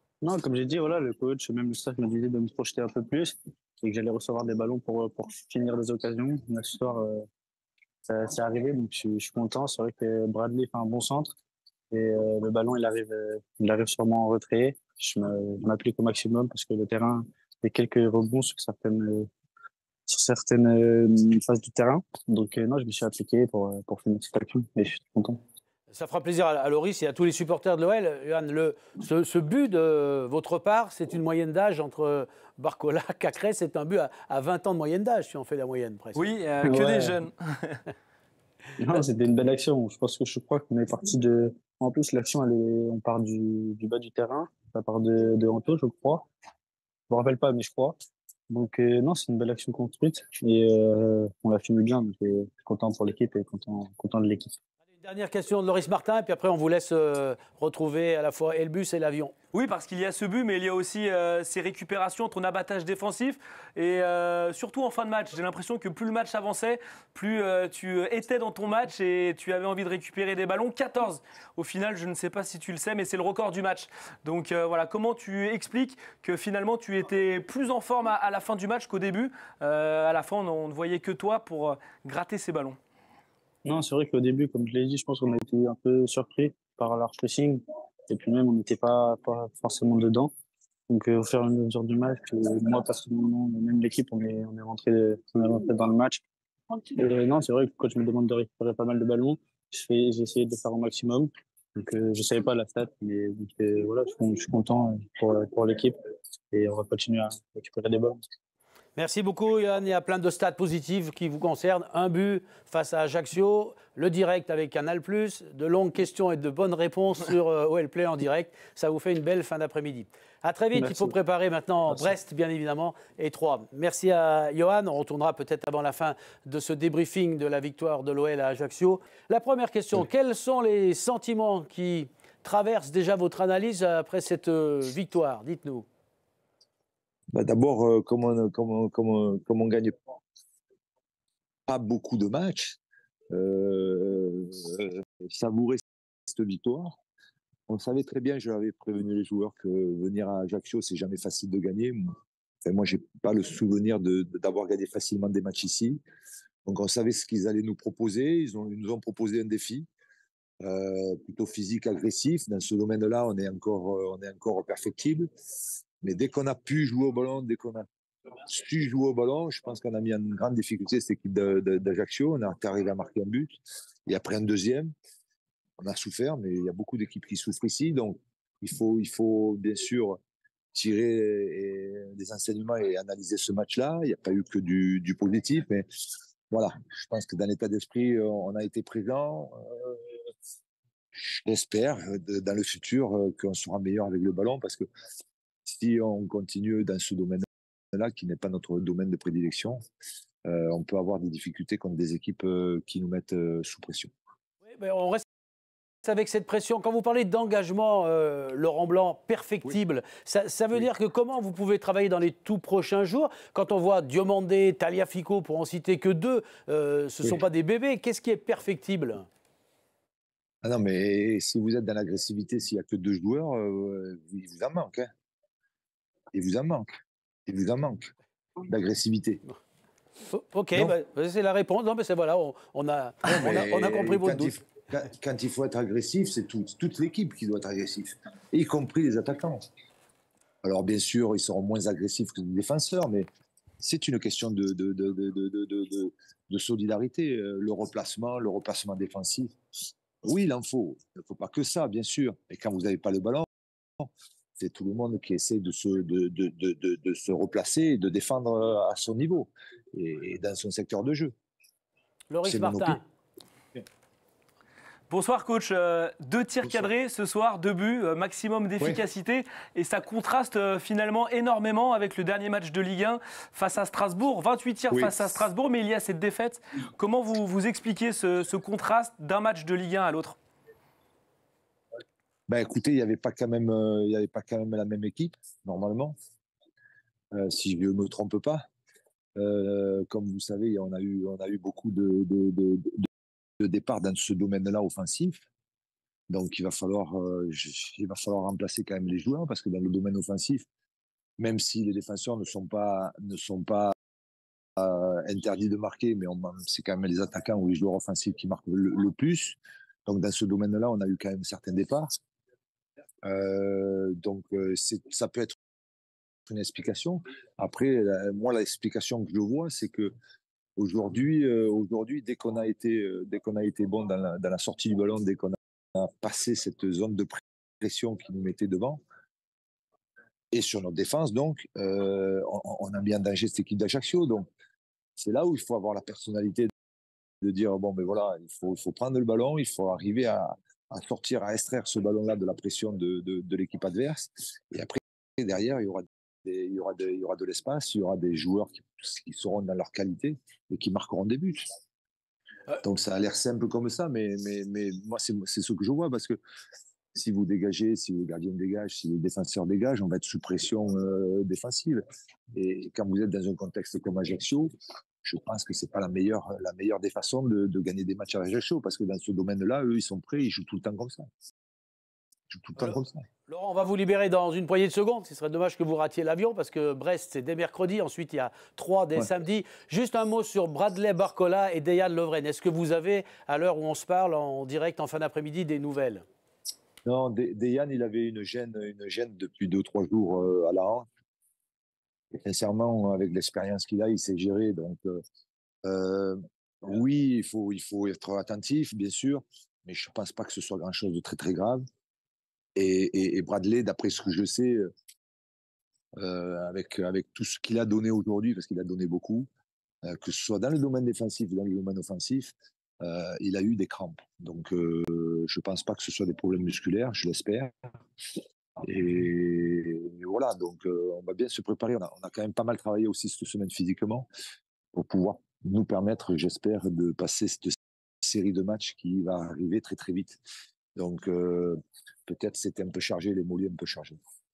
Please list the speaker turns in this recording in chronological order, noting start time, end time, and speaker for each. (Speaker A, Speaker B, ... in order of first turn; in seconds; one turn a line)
Speaker A: 0.2-7.2
Speaker A: 8.1-11.3
Speaker A: 11.9-19.3
Speaker A: 20.1-25.4
Speaker B: 25.9-36.2
Speaker C: 36.1-37.8
Speaker A: 36.6-37.2
Speaker A: 38.8-46.3
Speaker A: 47.1-48.0
Speaker A: 48.5-54.6
Speaker B: 55.0-59.3
Speaker C: 59.5-82.8
Speaker A: 83.6-90.3
Speaker A: 90.9-96.2
Speaker A: 96.8-106.0
Speaker A: 106.5-108.2
Speaker B: 109.0-135.8
Speaker A: 120.7-121.2
Speaker A: 121.9-122.1
Speaker D: 137.3-139.9
Speaker D: 141.7-142.8
Speaker D: 143.3-147.0
Speaker D: 147.7-156.0
Speaker D: 156.6-159.9
Speaker D: 160.6-165.3
Speaker D: 166.0-167.9
Speaker D: 168.5-174.9
Speaker D: 175.8-180.2
Speaker D: 180.7-185.8
Speaker D: 186.5-190.0
Speaker D: 191.1-194.8
Speaker D: 195.7-199.8
Speaker D: 200.4-204.1
Speaker B: 204.6-205.2
Speaker B: 206.0-219.3
Speaker D: 220.6-225.1
Speaker D: 226.3-226.9
Speaker D: 227.5-228.1
Speaker D: 228.7-229.4
Speaker B: 230.3-234.6
Speaker D: 233.2-239.6
Speaker D: 240.6-243.3
Speaker D: 243.8-249.6
Speaker D: 250.2-253.5
Speaker D: 254.0-261.3
Speaker B: 262.3-263.0
Speaker D: 262.4-263.0
Speaker C: 265.1-280.4
Speaker D: 274.9-275.4
Speaker D: 282.5-286.1
Speaker D: 287.3-288.6
Speaker D: 289.4-293.1
Speaker D: 293.6-295.4
Speaker D: 296.3-300.6
Speaker D: 301.4-303.9
Speaker D: 304.8-312.1
Speaker D: 313.2-315.6
Speaker D: 316.5-320.1
Speaker D: 320.8-329.0
Speaker D: 330.5-334.5
Speaker D: 335.2-336.7
Speaker D: 337.4-351.6
Speaker D: 352.8-356.4
Speaker D: 357.1-362.0
Speaker D: 362.5-364.7
Speaker D: 365.2-371.3
Speaker D: 372.5-373.2
Speaker B: 372.8-386.2
Speaker D: 387.0-391.1
Speaker D: 392.3-395.2
Speaker D: 395.8-401.9
Speaker D: 402.8-404.9
Speaker D: 406.2-409.5
Speaker D: 410.0-417.7
Speaker D: 418.8-424.3
Speaker D: 424.9-430.4
Speaker D: 430.9-434.2